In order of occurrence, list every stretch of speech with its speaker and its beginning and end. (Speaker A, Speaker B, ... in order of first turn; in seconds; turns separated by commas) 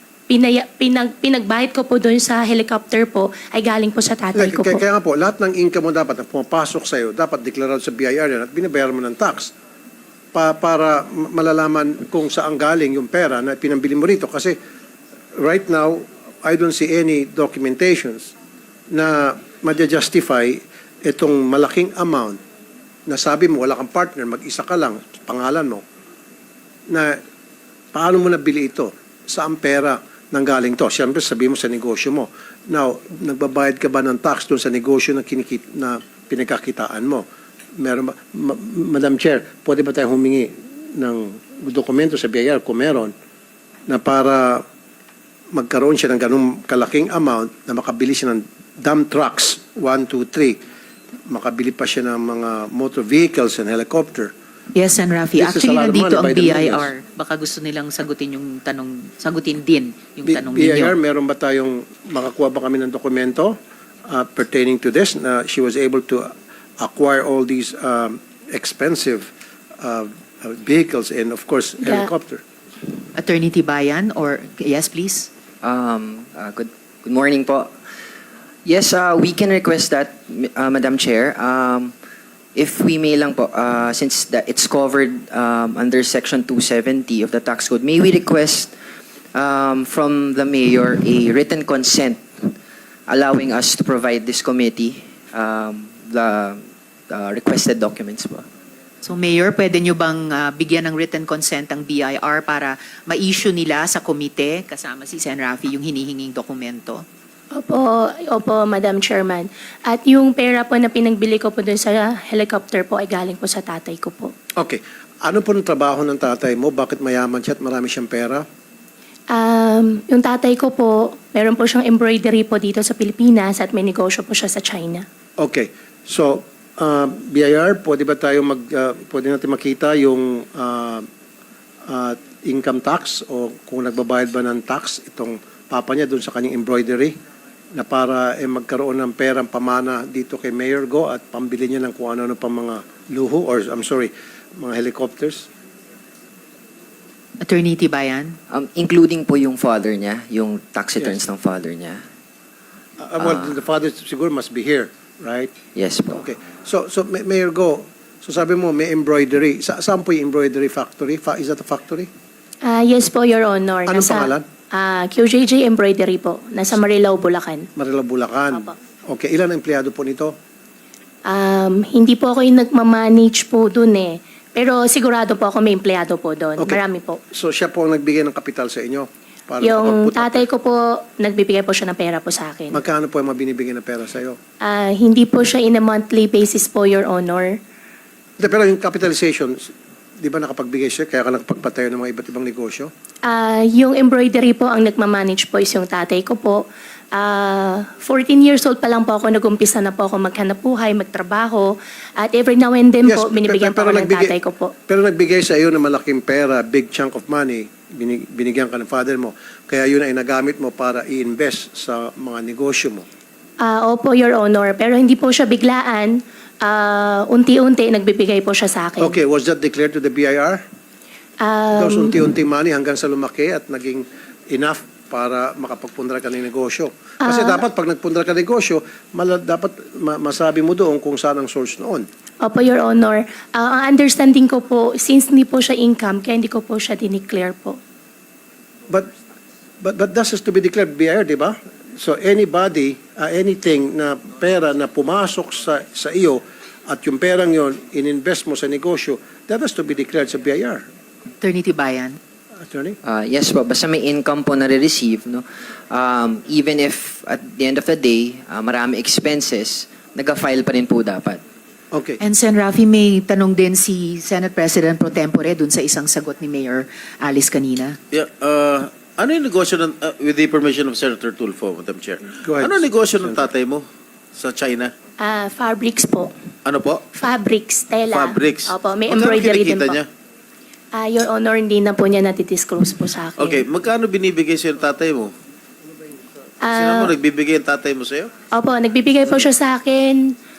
Speaker A: 0.3-4.8, Speaker B: 4.3-9.5, Speaker B: 10.3-14.6, Speaker B: 15.4-18.3, Speaker B: 18.9-22.4, Speaker B: 23.1-25.8, Speaker B: 26.9-27.2, Speaker B: 27.9-37.2, Speaker B: 37.8-43.1, Speaker B: 43.9-44.6, Speaker B: 45.5-50.6, Speaker B: 51.3-54.3, Speaker C: 54.8-61.0, Speaker B: 55.4-56.9, Speaker B: 60.2-63.6, Speaker B: 64.1-72.4, Speaker C: 73.2-75.3, Speaker D: 75.6-77.8, Speaker D: 78.7-81.9, Speaker D: 82.5-88.7, Speaker D: 89.3-92.5, Speaker D: 93.1-98.5, Speaker C: 99.0-107.0, Speaker A: 107.5-114.3, Speaker B: 114.6-118.5, Speaker A: 119.3-125.1, Speaker B: 125.4-131.1, Speaker B: 131.9-137.2, Speaker B: 137.7-145.5, Speaker C: 147.4-148.4, Speaker D: 148.5-152.0, Speaker B: 153.0-155.5, Speaker D: 153.2-153.5, Speaker D: 155.8-156.2, Speaker B: 156.1-162.1, Speaker A: 162.6-167.7, Speaker B: 163.9-164.5, Speaker B: 167.8-170.4, Speaker A: 171.2-177.2, Speaker B: 176.6-180.5, Speaker A: 179.6-182.8, Speaker B: 182.7-184.4, Speaker A: 184.6-187.6, Speaker B: 188.4-192.9, Speaker A: 193.2-204.7, Speaker B: 203.1-204.4, Speaker B: 204.9-213.1, Speaker A: 213.6-219.2, Speaker B: 219.0-220.6, Speaker A: 221.4-222.2, Speaker B: 221.7-232.1, Speaker A: 227.2-227.6, Speaker A: 232.4-237.8, Speaker B: 239.8-250.9, Speaker C: 251.4-252.2, Speaker B: 252.6-253.0, Speaker D: 253.0-261.4, Speaker B: 261.9-262.2, Speaker C: 262.2-268.0, Speaker E: 268.1-273.9, Speaker B: 272.4-273.5, Speaker E: 274.4-274.9, Speaker A: 275.2-276.3, Speaker E: 276.7-277.1, Speaker A: 277.2-280.0, Speaker E: 278.1-280.1, Speaker A: 280.9-283.6, Speaker E: 283.4-285.3, Speaker A: 286.6-287.1, Speaker E: 286.7-288.3, Speaker A: 288.5-290.4